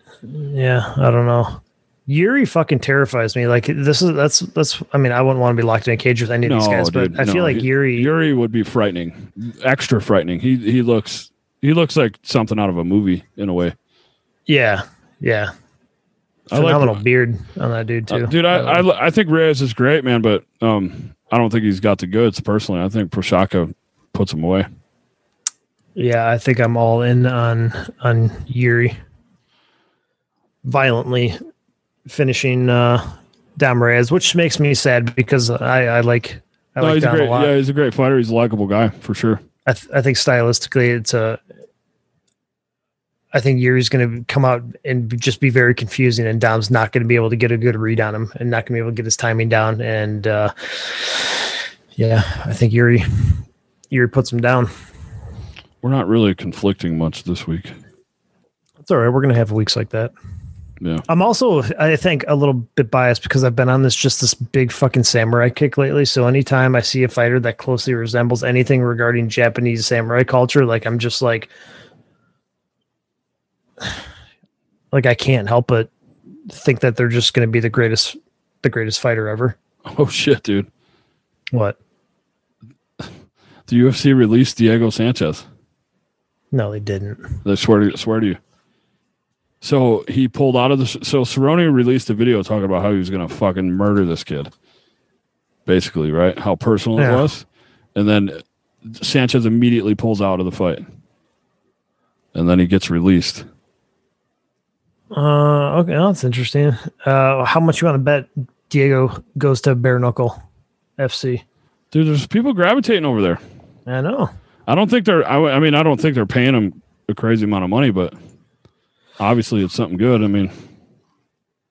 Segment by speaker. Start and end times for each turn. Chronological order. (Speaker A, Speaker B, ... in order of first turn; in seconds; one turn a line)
Speaker A: 0.3-8.1
Speaker B: 6.4-13.8
Speaker A: 14.5-15.5
Speaker B: 16.5-17.0
Speaker A: 16.5-18.8
Speaker B: 18.1-24.7
Speaker A: 26.0-28.9
Speaker A: 30.6-31.4
Speaker A: 32.1-33.0
Speaker A: 33.6-37.5
Speaker B: 36.8-39.4
Speaker A: 39.7-41.4
Speaker A: 43.3-54.7
Speaker B: 55.8-57.7
Speaker A: 58.9-60.1
Speaker B: 60.8-61.0
Speaker A: 61.1-71.5
Speaker A: 74.9-75.9
Speaker A: 76.5-79.6
Speaker B: 79.9-80.7
Speaker B: 83.7-85.5
Speaker A: 86.5-87.3
Speaker B: 87.5-88.4
Speaker B: 89.6-94.5
Speaker B: 95.7-100.8
Speaker A: 97.0-97.3
Speaker B: 102.3-103.5
Speaker A: 105.1-110.4
Speaker A: 111.0-111.4
Speaker B: 111.9-113.4
Speaker A: 113.9-114.3
Speaker B: 114.7-118.1
Speaker B: 119.2-120.5